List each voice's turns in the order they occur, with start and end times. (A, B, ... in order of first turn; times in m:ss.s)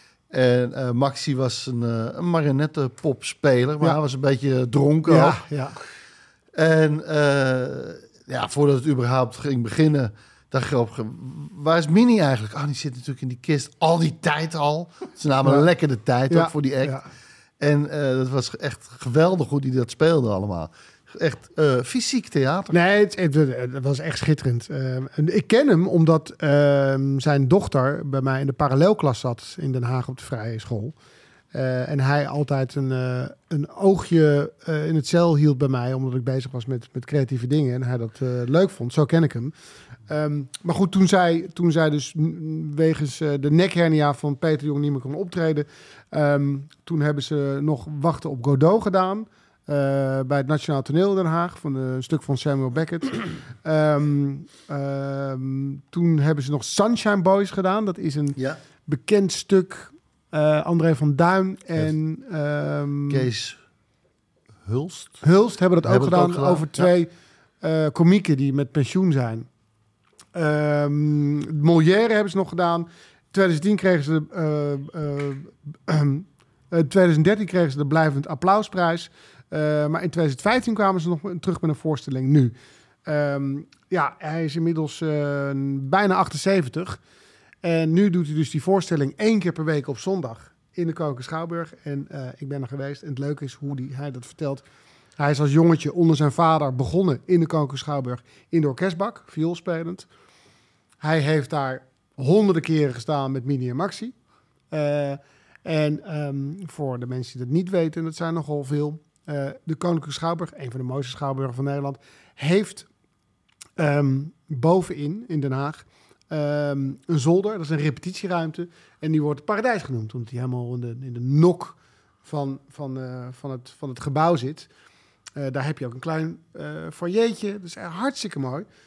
0:00.3-0:05.4 A
0:05.0-0:05.8 B
0:06.5-0:17.0 A
0:16.3-0:17.0 B
0:17.6-0:22.8 A
0:22.7-0:30.9 B
0:31.5-0:39.5 B
0:40.1-1:03.3 B
1:03.1-1:03.6 A
1:04.6-1:05.2 A
1:05.2-1:07.1 B
1:05.8-1:06.9 A
1:07.6-1:09.5 B
1:10.3-1:22.5 B
1:23.0-1:27.0 B
1:27.6-1:34.6 B
1:35.2-1:40.1 B
1:41.0-1:44.1 B
1:44.7-1:52.9 B
1:53.8-2:04.7 B
2:05.4-2:08.7 B